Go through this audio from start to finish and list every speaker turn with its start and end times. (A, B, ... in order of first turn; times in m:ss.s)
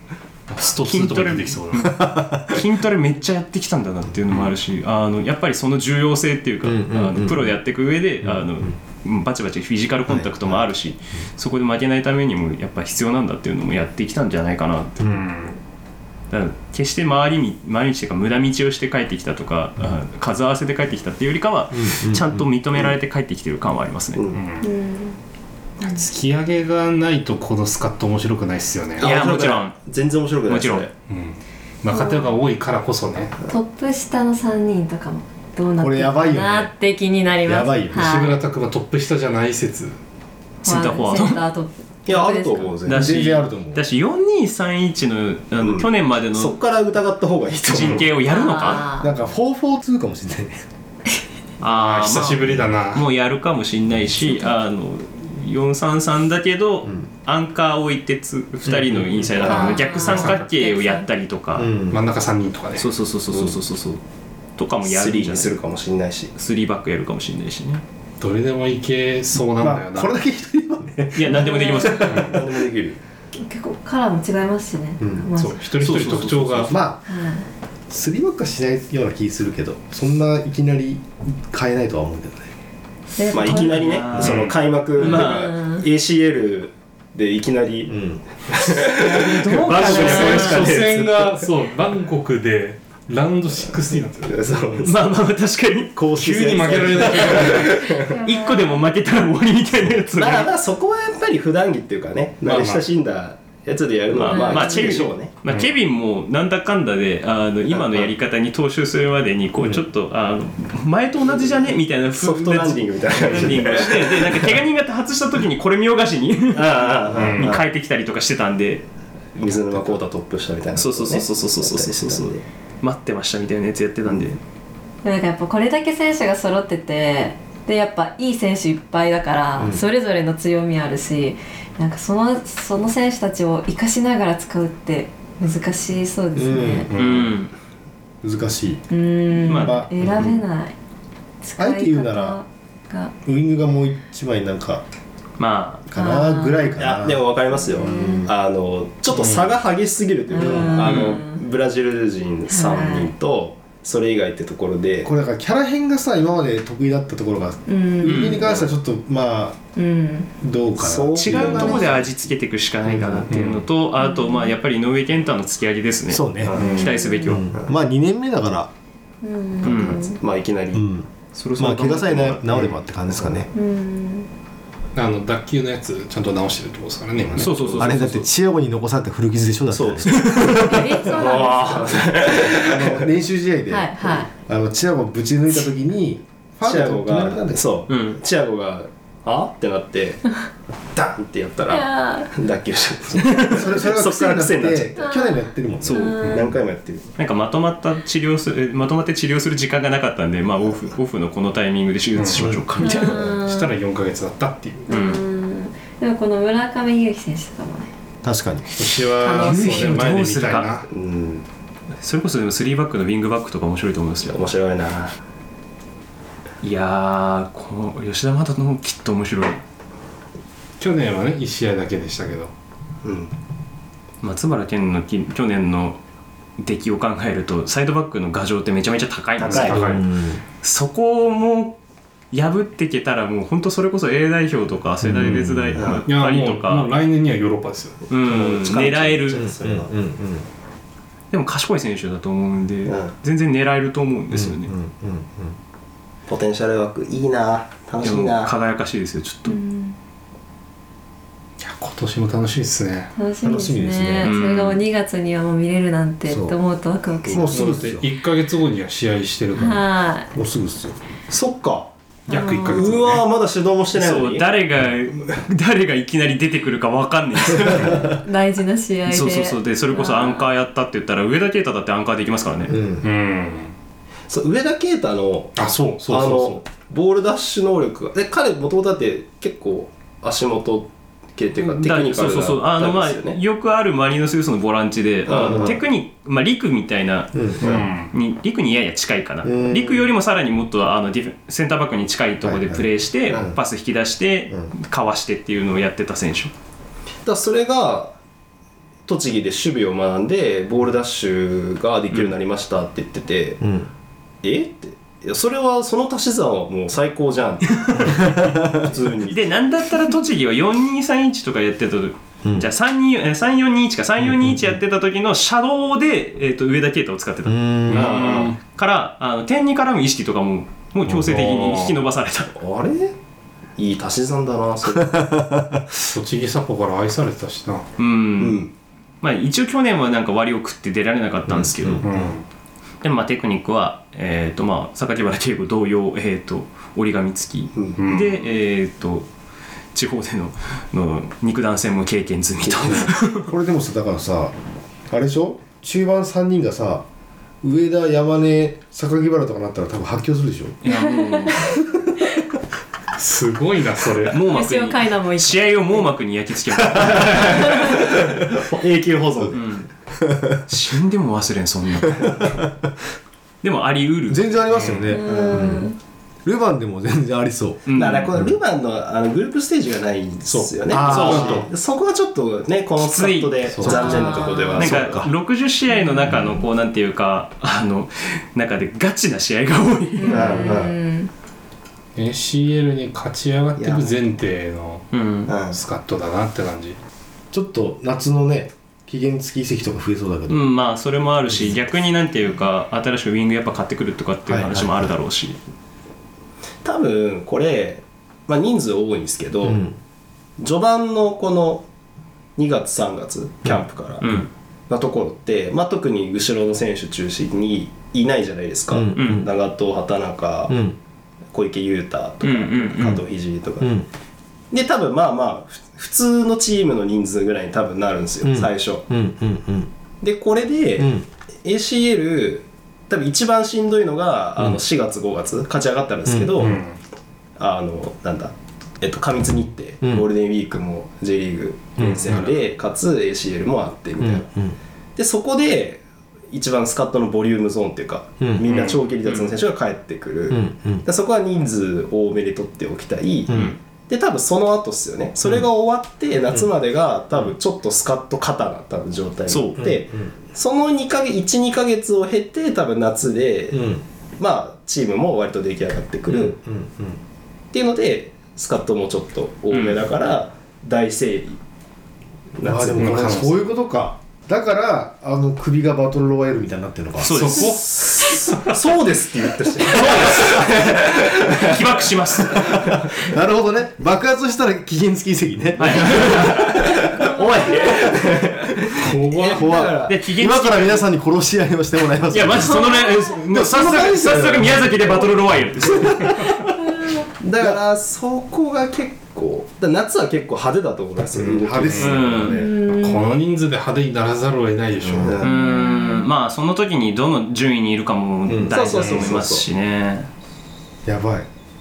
0:00.5-0:02.0 A
0:00.8-0:15.0 B
0:01.8-0:02.6 C
0:06.6-0:07.5 C
0:08.2-0:08.7 C
0:10.1-0:10.6 C
0:15.0-0:15.2 C
0:15.0-0:15.6 A
0:16.3-0:24.2 B
0:21.7-0:22.4 C
0:24.1-0:24.4 D
0:24.3-0:24.7 A
0:24.6-0:25.2 E
0:25.8-0:26.0 E
0:25.8-0:29.1 A
0:29.0-0:30.9 D
0:29.0-0:29.9 B
0:30.5-0:30.8 B
0:31.1-0:33.3 A
0:31.9-0:32.4 E
0:33.5-0:38.4 E
0:35.8-0:36.7 C
0:37.4-0:38.1 C
0:37.9-0:40.0 A
0:40.6-0:41.4 B
0:40.6-0:42.8 E
0:42.1-0:43.2 D
0:42.8-0:46.6 B
0:42.9-0:43.8 C
0:45.6-0:48.1 D
0:47.6-0:48.9 B
0:48.2-0:49.1 E
0:49.0-0:50.6 C
0:51.6-1:01.7 B
0:51.7-0:53.0 A
0:58.7-0:59.4 C
0:59.4-1:01.1 E
0:59.5-1:00.4 A
1:01.6-1:02.0 C
1:01.9-1:02.9 A
1:02.8-1:04.0 B
1:04.6-1:05.5 B
1:04.8-1:06.3 D
1:06.4-1:07.8 B
1:08.2-1:10.1 A
1:09.6-1:12.6 C
1:11.1-1:12.3 B
1:11.4-1:12.0 E
1:12.1-1:12.4 A
1:12.2-1:13.0 D
1:13.3-1:15.6 E
1:15.0-1:15.3 C
1:15.3-1:16.7 A
1:15.8-1:16.7 B
1:16.7-1:17.0 C
1:17.0-1:17.5 E
1:17.9-1:22.5 C
1:23.2-1:24.0 E
1:23.3-1:27.9 D
1:23.3-1:25.5 B
1:24.1-1:24.5 A
1:25.0-1:25.8 E
1:27.9-1:28.2 C
1:28.5-1:31.5 D
1:28.8-1:30.8 B
1:29.7-1:34.5 A
1:34.2-1:35.1 D
1:34.5-1:34.9 C
1:34.8-1:36.0 B
1:36.0-1:37.2 C
1:36.1-1:37.8 A
1:36.2-1:38.1 D
1:37.3-1:40.5 B
1:37.8-1:38.8 E
1:40.2-1:45.3 D
1:42.4-1:42.8 A
1:44.1-1:58.8 B
1:44.3-1:45.0 E
1:47.7-1:48.1 D
1:52.1-1:54.6 D
1:56.5-1:57.6 D
1:57.1-1:57.6 A
1:59.4-2:02.4 D
2:00.7-2:04.4 B
2:05.0-2:16.9 E
2:09.6-2:09.8 C
2:16.3-2:17.1 C
2:16.9-2:17.4 A
2:16.9-2:17.5 B
2:18.2-2:18.8 C
2:18.9-2:20.7 E
2:19.5-2:19.8 B
2:19.6-2:20.4 C
2:21.4-2:23.1 E
2:21.6-2:22.4 C
2:23.2-2:24.8 C
2:25.4-2:25.8 B
2:25.9-2:27.2 C
2:25.9-2:26.7 E
2:26.8-2:35.1 D
2:27.7-2:28.3 E
2:27.9-2:28.2 C
2:29.1-2:29.6 A
2:30.3-2:31.4 E
2:30.4-2:30.9 C
2:30.8-2:31.2 B
2:32.5-2:33.1 E
2:35.0-2:39.6 C
2:37.7-2:38.4 E
2:38.0-2:38.4 B
2:39.7-2:40.3 E
2:40.4-2:42.0 C
2:40.8-2:42.0 D
2:41.1-2:47.5 B
2:42.8-2:43.3 C
2:43.3-2:43.6 A
2:44.0-2:44.5 E
2:46.1-2:46.6 C
2:46.4-2:46.9 D
2:46.6-2:47.4 E
2:47.2-2:48.7 C
2:49.2-2:50.2 E
2:49.6-2:50.0 B
2:49.6-2:50.9 D
2:50.7-2:53.5 C
2:51.3-2:52.8 B
2:53.1-2:53.4 D
2:53.5-2:54.3 E
2:54.9-2:58.0 A
2:57.3-2:58.3 B
2:57.8-3:01.0 C
2:59.7-3:03.1 D
3:00.0-3:02.0 B
3:00.4-3:02.0 E
3:01.9-3:07.7 C
3:03.7-3:04.3 E
3:06.6-3:10.2 D
3:07.9-3:08.2 B
3:10.9-3:15.0 D
3:11.7-3:12.3 E
3:13.2-3:13.7 B
3:13.2-3:16.1 C
3:15.0-3:16.5 E
3:15.8-3:16.4 B
3:16.2-3:17.1 D
3:17.2-3:23.3 B
3:22.1-3:24.9 A
3:22.4-3:22.6 C
3:22.8-3:23.7 E
3:24.9-3:27.9 E
3:24.9-3:25.2 B
3:28.2-3:28.6 C
3:28.8-3:30.8 A
3:29.0-3:29.9 E
3:29.3-3:30.7 B
3:30.8-3:31.4 D
3:32.0-3:34.4 B
3:34.2-3:35.1 D
3:36.6-3:39.6 B
3:40.8-3:42.5 A
3:43.0-3:43.3 D
3:44.2-3:46.0 B
3:46.6-3:50.0 B
3:49.4-3:50.0 D
3:49.5-3:50.0 A
3:49.8-3:50.4 C
3:50.6-3:51.8 B
3:52.3-3:56.9 B
3:55.0-3:56.0 C
3:55.8-3:56.0 D
3:56.0-3:58.1 A
3:58.1-3:59.4 B
3:58.1-3:59.9 D
3:59.3-4:00.4 C
4:01.3-4:04.7 B
4:02.8-4:03.1 D
4:04.3-4:05.6 C
4:06.3-4:08.5 D
4:08.0-4:09.6 B
4:09.4-4:10.0 E
4:11.6-4:13.1 A
4:13.1-4:17.8 E
4:13.4-4:14.3 C
4:14.2-4:14.8 B
4:16.3-4:16.6 C
4:17.2-4:18.1 C
4:17.5-4:19.9 A
4:19.6-4:20.3 E
4:20.3-4:21.0 C
4:21.3-4:21.9 D
4:22.3-4:22.9 E
4:22.3-4:23.3 A
4:22.6-4:24.5 D
4:23.9-4:28.1 B
4:27.8-4:30.4 E
4:29.1-4:32.8 B
4:32.7-4:33.1 C
4:33.0-4:33.7 A
4:34.3-4:43.4 D
4:35.6-4:36.6 A
4:41.6-4:56.5 B
4:45.3-4:45.8 D
4:45.3-4:45.8 C
4:47.3-4:47.8 C
4:47.6-4:48.1 A
4:49.4-4:50.1 C
4:52.4-4:53.6 C
4:57.2-4:58.2 D
4:59.0-5:03.6 D
5:03.6-5:03.9 C
5:04.4-5:09.4 D
5:08.2-5:08.8 C
5:09.2-5:22.6 B
5:14.4-5:14.7 C
5:17.4-5:18.1 C
5:17.9-5:18.6 A
5:18.0-5:18.5 D
5:21.2-5:22.0 A
5:22.6-5:23.1 D
5:23.8-5:25.2 D
5:25.0-5:25.8 C
5:26.0-5:27.9 A
5:28.0-5:28.6 B
5:28.4-5:28.7 D
5:29.2-5:32.0 B
5:31.5-5:32.1 C
5:32.0-5:32.4 A
5:33.0-5:39.3 B
5:38.0-5:38.4 A
5:39.9-5:43.5 B
5:42.9-5:44.5 C
5:45.1-5:47.0 C
5:47.6-5:50.8 C
5:50.8-5:51.8 B
5:50.9-5:51.8 E
5:53.2-5:54.4 A
5:54.3-5:58.0 B
5:54.5-5:55.8 E
5:57.0-5:59.6 D
5:57.5-5:57.9 E
5:59.5-5:59.9 B
6:00.2-6:00.6 C
6:00.7-6:02.6 B
6:03.6-6:04.6 B
6:04.3-6:05.9 C
6:04.7-6:05.2 A
6:05.1-6:06.0 E
6:05.2-6:05.7 D
6:06.4-6:07.8 C
6:07.9-6:08.4 B
6:07.9-6:15.2 D
6:10.4-6:11.7 A
6:10.9-6:11.7 C
6:11.1-6:11.4 B
6:13.0-6:20.8 B
6:13.7-6:14.0 A
6:13.8-6:15.3 C
6:13.8-6:14.8 E
6:15.9-6:16.3 E
6:20.2-6:21.3 E
6:20.3-6:20.9 D
6:22.1-6:25.1 A
6:23.8-6:24.2 D
6:25.1-6:25.5 B
6:25.5-6:25.8 D
6:25.6-6:27.0 A
6:27.5-6:30.6 C
6:30.5-6:35.6 B
6:34.5-6:35.1 C
6:36.8-6:39.8 D
6:39.6-6:40.0 C
6:40.6-6:41.8 D
6:42.6-6:50.8 D
6:44.2-6:44.5 B
6:48.9-6:49.5 C
6:49.1-6:49.5 B
6:50.7-6:51.0 C
6:51.5-6:54.0 D
6:52.4-6:53.2 B
6:53.8-6:54.1 C
6:54.7-6:59.0 D
6:58.4-6:59.9 C
7:00.2-7:06.8 D
7:01.0-7:01.2 C
7:06.2-7:06.8 C
7:06.6-7:07.0 A
7:07.6-7:14.4 D
7:10.0-7:10.3 C
7:12.0-7:12.5 C
7:12.2-7:12.5 A
7:14.2-7:14.8 C
7:15.2-7:33.9 D
7:18.4-7:18.7 C
7:19.2-7:19.6 B
7:20.5-7:21.0 C
7:23.5-7:23.7 C
7:23.5-7:23.8 B
7:29.5-7:29.8 B
7:29.8-7:30.3 C
7:33.7-7:34.0 C
7:34.4-7:36.6 D
7:36.3-7:37.2 C
7:37.7-7:41.6 D
7:39.7-7:40.0 B
7:42.5-7:43.4 D
7:42.6-7:47.4 C
7:43.0-7:43.6 A
7:47.2-7:47.8 B
7:47.3-7:48.8 A
7:47.4-7:51.9 D
7:50.0-7:50.6 B
7:51.2-7:53.0 B
7:52.4-7:53.2 D
7:52.5-7:57.1 C
7:55.8-7:56.7 B
7:56.0-8:00.2 D
7:57.8-7:58.1 C
7:59.0-7:59.7 A
7:59.4-8:07.0 C
8:00.0-8:01.1 B
8:02.3-8:06.4 B
8:07.2-8:12.4 D
8:11.3-8:12.7 C
8:11.9-8:15.4 A
8:12.0-8:12.6 B
8:12.5-8:13.2 E
8:15.0-8:15.4 C
8:15.1-8:15.5 D
8:15.4-8:16.3 E
8:15.4-8:20.3 B
8:18.5-8:19.1 C
8:18.7-8:19.6 D
8:21.0-8:21.5 C